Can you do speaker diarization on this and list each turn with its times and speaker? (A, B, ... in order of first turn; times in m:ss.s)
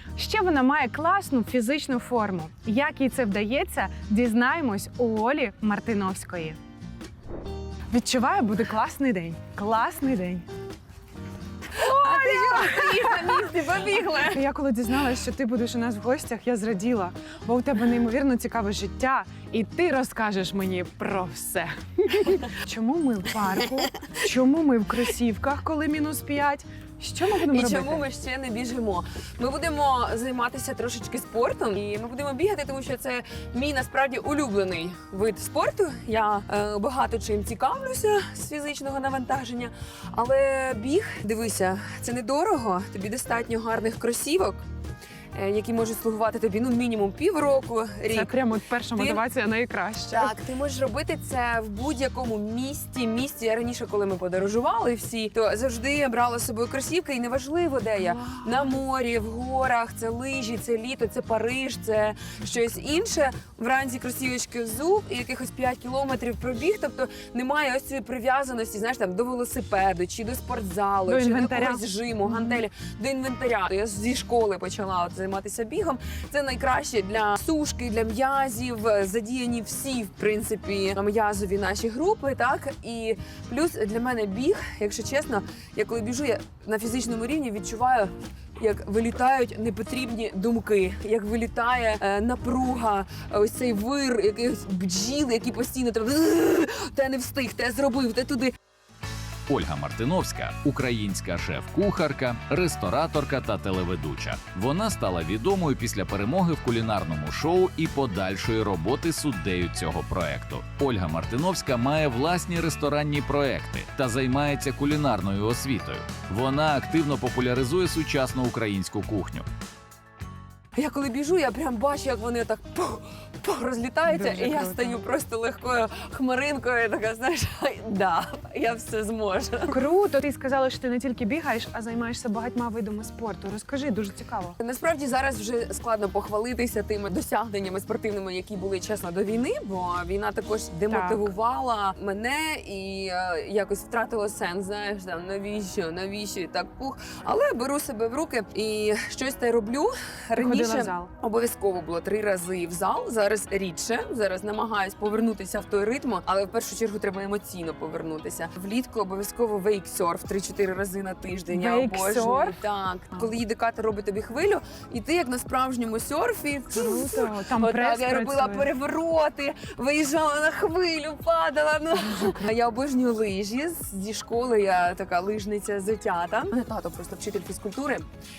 0:00.2-0:06.6 A
0:07.9-0:10.4 A
0:11.8-0:13.5 A
0:11.8-0:14.4 B
0:14.1-0:28.0 A
0:27.5-0:44.6 B
0:45.4-0:48.3 B
0:48.1-0:50.4 A
0:48.9-0:49.2 B
0:50.1-1:38.5 B
0:58.1-0:58.6 A
1:11.1-1:12.6 A
1:39.5-1:59.5 C
2:00.8-2:09.8 B
2:04.1-2:05.0 A
2:09.7-2:14.6 A
2:14.6-2:58.1 B
2:20.9-2:21.3 A
2:30.4-2:31.1 A
2:41.5-2:42.6 A
2:46.7-2:48.7 A